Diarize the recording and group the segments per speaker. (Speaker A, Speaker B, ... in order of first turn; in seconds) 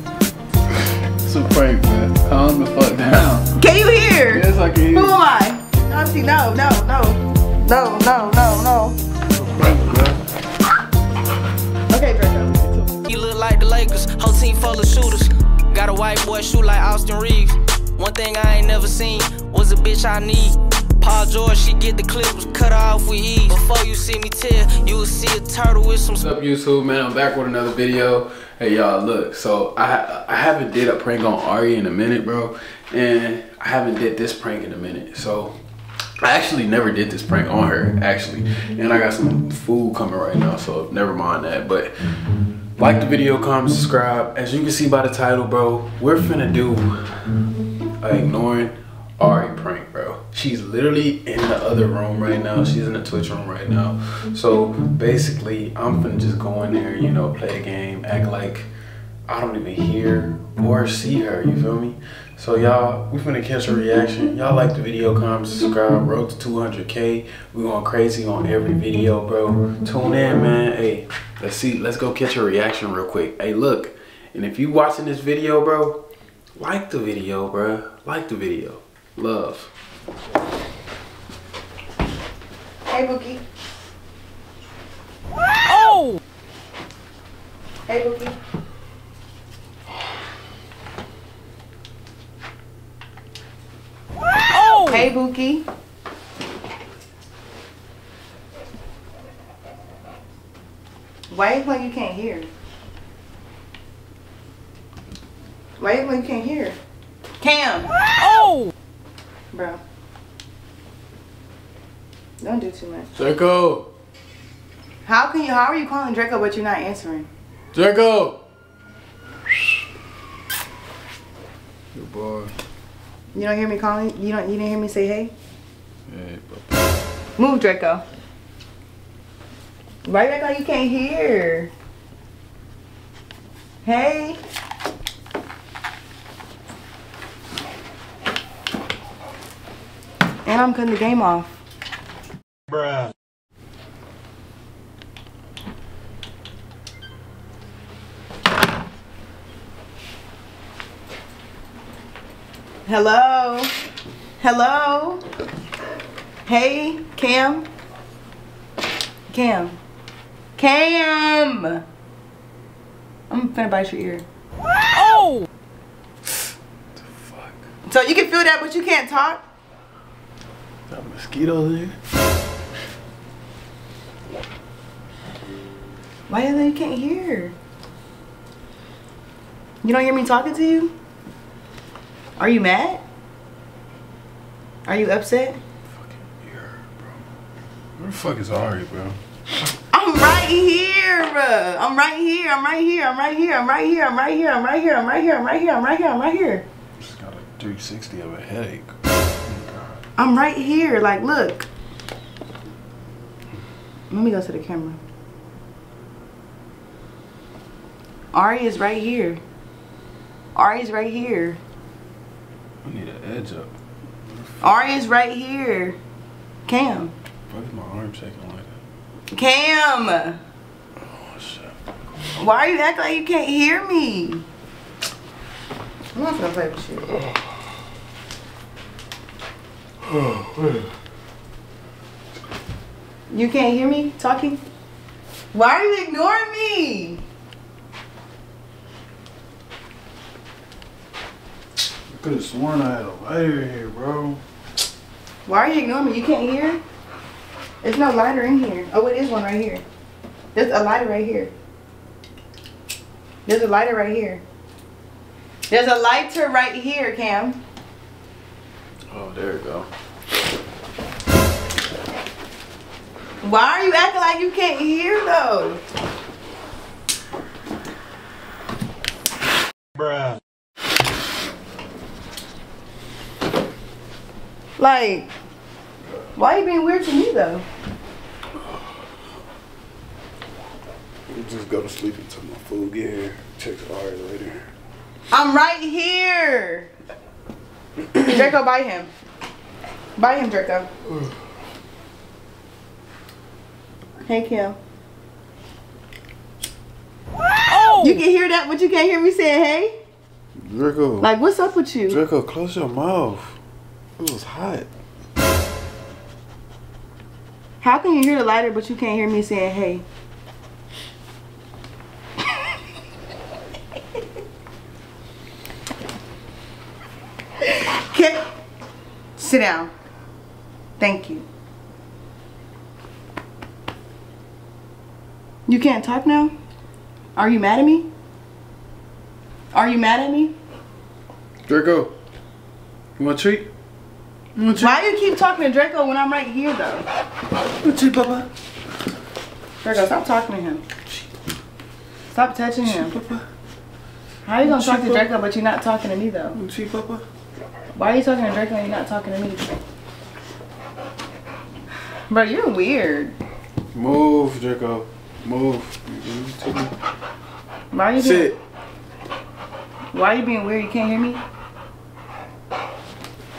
Speaker A: 1.2-3.5, 4.3-5.2, 9.4-10.2, 26.2-35.5, 36.2-41.9, 42.8-47.4, 48.0-58.7, 59.3-76.0, 76.6-79.7, 113.2-113.9, 117.7-118.4, 121.9-122.5, 126.1-126.8, 167.0-167.6, 170.9-172.0, 185.9-187.2, 188.0-189.2, 197.0-200.0, 212.8-213.7, 214.3-214.8, 217.5-218.8, 221.1-221.7, 230.1-230.9, 242.1-244.4, 259.1-259.9, 281.3-284.7, 300.6-301.3, 302.1-303.6, 304.2-304.9, 331.7-332.1, 333.2-333.7, 334.6-335.0, 337.8-338.5, 342.8-343.4, 344.6-345.3, 346.6-347.2, 353.9-356.9, 358.2-358.6
Speaker B: 3.6-9.0, 11.9-12.7, 82.9-83.4, 87.9-88.3, 94.6-95.7, 101.3-102.5, 105.8-106.8, 107.4-107.9, 109.5-109.8, 112.4-113.1, 115.0-117.3, 123.3-125.3, 127.4-128.0, 130.1-131.7, 133.8-134.4, 140.5-141.5, 152.9-153.7, 154.4-155.2, 156.4-157.7, 159.3-159.8, 160.6-161.8, 163.3-164.2, 167.9-169.4, 176.3-177.6, 179.8-180.9, 182.4-183.0, 184.8-185.6, 189.9-196.7, 200.2-201.7, 204.1-205.0, 208.3-209.4, 210.6-211.6, 214.6-216.0, 216.7-217.1, 219.3-220.4, 222.4-224.4, 226.2-227.2, 233.3-234.6, 235.5-237.2, 245.5-246.8, 247.8-249.8, 250.6-251.5, 253.5-254.4, 255.7-257.6, 263.4-265.8, 274.8-275.3, 276.4-277.6, 285.3-286.9, 288.2-289.1, 290.2-290.9, 294.2-294.8, 297.9-299.9, 301.2-302.2, 307.8-310.1, 317.6-318.4, 319.4-319.9, 321.0-321.4, 325.7-326.5, 327.4-328.1, 329.7-330.6, 334.8-337.1, 339.8-340.8, 342.3-343.2, 344.4-346.6, 347.9-349.7, 352.3-353.4, 357.9-358.5, 360.1-361.4
Speaker C: 13.1-26.2